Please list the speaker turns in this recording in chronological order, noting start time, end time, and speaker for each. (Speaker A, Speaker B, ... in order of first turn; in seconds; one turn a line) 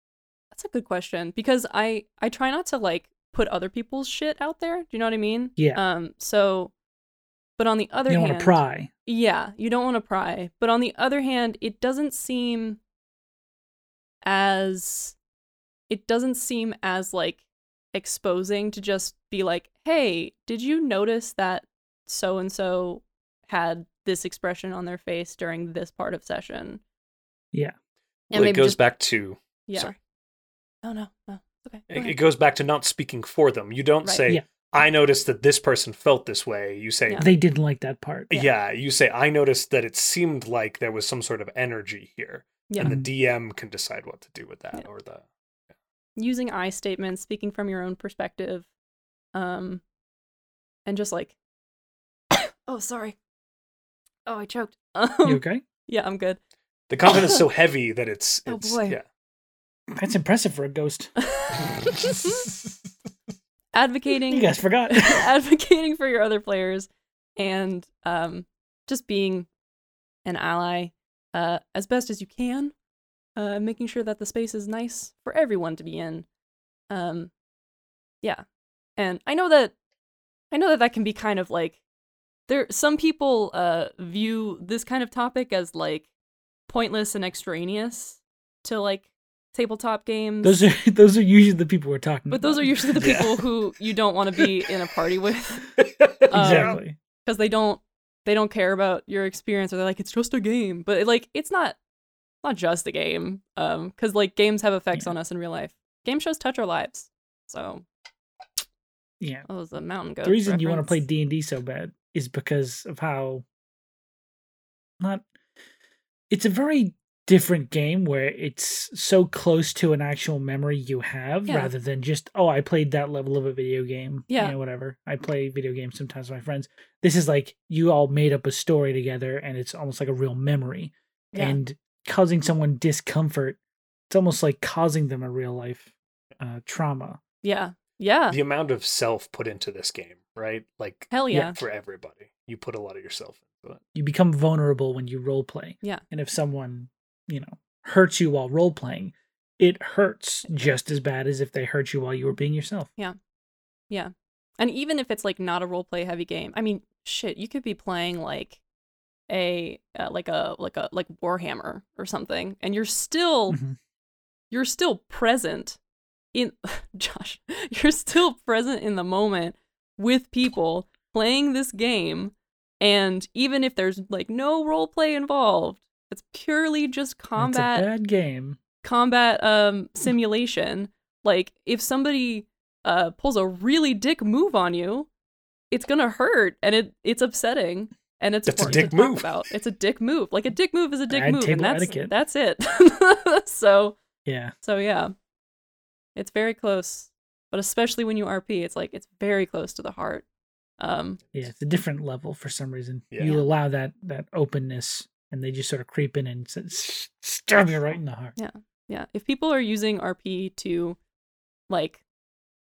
Speaker A: 0.5-6.7
Speaker B: 5.6-5.8
Speaker A: 7.6-12.8
Speaker B: 8.1-8.9
Speaker A: 14.2-15.2
Speaker A: 15.9-17.4
Speaker A: 17.9-26.8
Speaker C: 28.3-29.9
Speaker A: 28.3-28.8
Speaker A: 29.7-30.0
Speaker A: 30.8-32.2
Speaker C: 31.9-37.3
Speaker B: 37.2-38.3
Speaker C: 38.3-45.2
Speaker A: 42.7-43.0
Speaker B: 42.8-43.1
Speaker A: 46.2-48.7
Speaker A: 49.3-49.8
Speaker A: 50.9-51.4
Speaker A: 52.4-53.2
Speaker A: 54.3-56.4
Speaker B: 55.2-55.6
Speaker C: 56.9-59.0
Speaker A: 57.1-57.4
Speaker A: 58.5-59.0
Speaker B: 59.9-61.1
Speaker A: 61.2-62.5
Speaker C: 62.0-62.5
Speaker A: 63.7-69.5
Speaker B: 64.3-65.3
Speaker A: 70.2-72.7
Speaker A: 73.4-76.3
Speaker A: 76.9-77.3
Speaker A: 79.0-79.7
Speaker A: 80.5-81.8
Speaker A: 82.5-86.1
Speaker A: 86.7-90.6
Speaker B: 90.4-93.3
Speaker A: 92.3-95.7
Speaker C: 93.0-93.4
Speaker C: 95.8-96.8
Speaker A: 96.3-101.8
Speaker B: 96.3-97.0
Speaker A: 102.4-107.8
Speaker B: 109.2-109.5
Speaker A: 109.5-111.0
Speaker B: 110.2-113.5
Speaker B: 115.0-115.3
Speaker B: 116.3-133.6
Speaker A: 124.3-124.5
Speaker A: 131.3-131.6
Speaker B: 134.1-137.2
Speaker A: 137.4-138.4
Speaker C: 138.3-143.8
Speaker A: 141.1-141.6
Speaker B: 143.9-152.9
Speaker A: 153.9-158.6
Speaker A: 159.3-163.6
Speaker B: 163.5-163.8
Speaker A: 164.5-165.8
Speaker A: 166.3-177.9
Speaker B: 177.4-178.6
Speaker A: 178.8-185.1
Speaker A: 185.7-194.0
Speaker C: 188.5-189.4
Speaker B: 188.6-188.9
Speaker B: 191.1-192.1
Speaker B: 194.3-194.5
Speaker A: 194.6-195.1
Speaker A: 196.2-200.3
Speaker A: 200.8-201.2
Speaker B: 201.3-208.3
Speaker C: 203.1-203.4
Speaker A: 208.4-211.0
Speaker A: 211.7-212.0